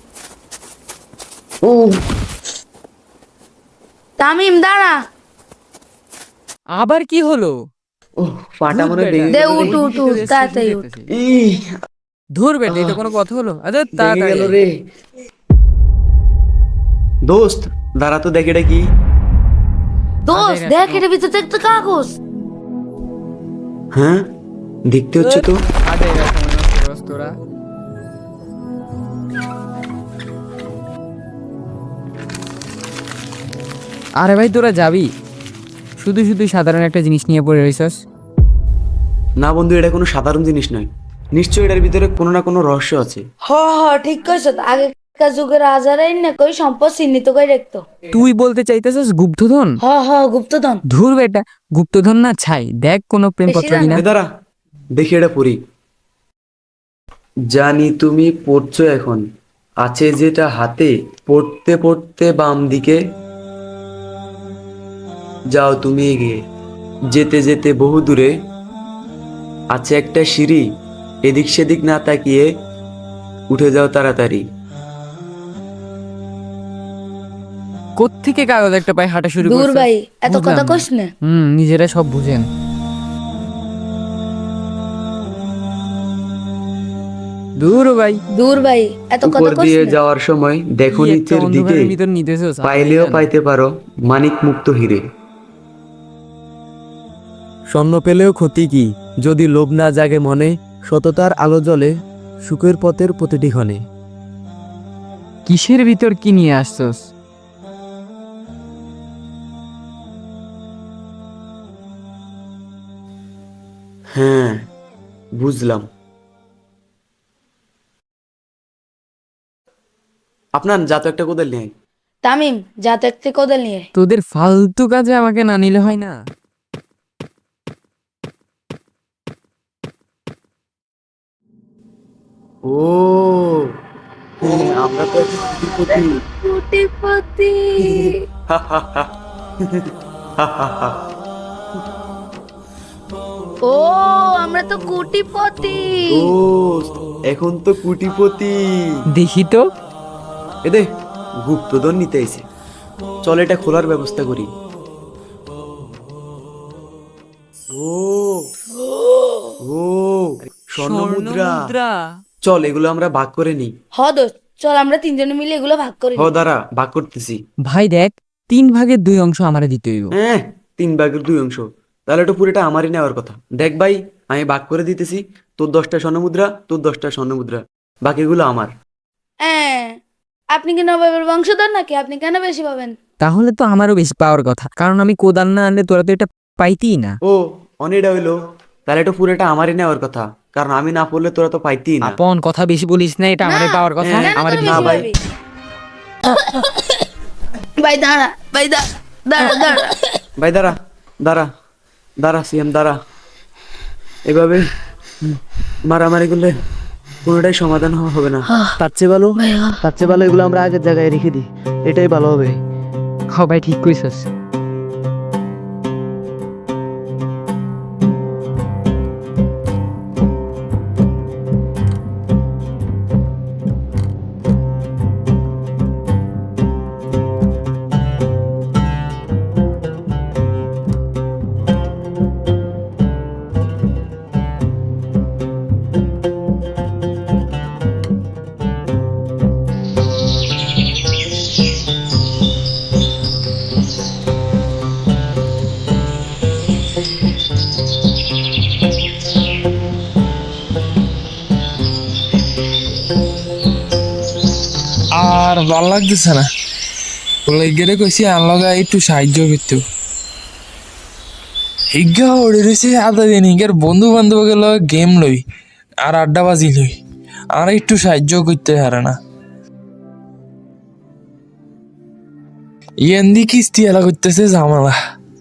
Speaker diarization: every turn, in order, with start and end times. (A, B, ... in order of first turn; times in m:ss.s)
0:01.6-0:02.0 A
0:04.2-0:04.9 B
0:06.7-0:07.6 C
0:08.2-0:09.9 A
0:08.7-0:11.1 C
0:09.3-0:10.8 B
0:11.1-0:11.6 A
0:12.4-0:14.6 C
0:12.7-0:13.0 A
0:14.0-0:14.7 A
0:17.3-0:18.8 A
0:20.3-0:22.1 B
0:20.3-0:21.0 C
0:24.0-0:24.2 A
0:24.9-0:25.6 A
0:25.2-0:27.4 C
0:34.2-0:35.1 C
0:36.0-0:38.0 C
0:39.4-0:43.2 A
0:43.5-0:47.8 B
0:48.1-0:49.8 C
0:49.8-0:50.8 B
0:50.9-0:54.0 C
0:53.5-0:54.0 B
0:54.0-0:54.2 A
0:55.0-0:55.6 A
0:57.5-0:59.2 A
0:59.8-1:03.0 A
1:05.6-1:06.4 A
1:07.1-1:08.3 A
1:09.8-1:10.6 A
1:11.3-1:12.4 A
1:13.5-1:14.4 A
1:18.0-1:22.4 C
1:19.5-1:21.1 B
1:27.6-1:28.2 C
1:28.3-1:30.0 B
1:29.2-1:31.9 A
1:30.9-1:33.3 C
1:32.6-1:35.0 A
1:37.7-1:41.9 D
1:42.4-1:43.8 D
1:45.5-1:47.1 C
1:54.2-1:54.6 A
1:55.4-1:55.8 A
2:00.6-2:01.7 A
2:02.2-2:03.9 B
2:03.9-2:06.2 C
2:12.7-2:13.6 A
2:14.4-2:16.1 A
2:15.9-2:18.2 B
2:18.0-2:19.1 A
2:20.4-2:20.9 A
2:23.7-2:25.9 B
2:26.2-2:28.6 A
2:29.1-2:29.6 C
2:31.4-2:32.4 A
2:33.2-2:34.5 A
2:37.7-2:38.4 A
2:39.0-2:39.5 B
2:39.7-2:41.7 A
2:40.9-2:41.2 C
2:42.4-2:43.7 A
2:44.0-2:46.3 B
2:46.2-2:47.4 A
2:47.7-2:50.1 C
2:50.2-2:58.7 A
2:59.5-2:59.9 B
3:00.6-3:02.9 B
3:03.2-3:07.2 C
3:07.3-3:08.3 A
3:08.9-3:12.2 A
3:12.0-3:15.1 C
3:13.4-3:15.1 B
3:14.0-3:15.1 A
3:16.3-3:16.9 B
3:17.8-3:20.0 B
3:20.4-3:20.7 A
3:22.2-3:22.9 A
3:24.3-3:24.6 A
3:25.9-3:26.5 A
3:27.2-3:28.5 A
3:28.8-3:29.3 D
3:29.3-3:30.0 B
3:29.8-3:32.5 D
3:33.3-3:34.3 C
4:15.1-4:16.4 E
4:17.5-4:19.8 E
4:21.9-4:25.4 E
4:26.0-4:26.9 E
4:27.5-4:29.1 E
4:33.0-4:34.9 E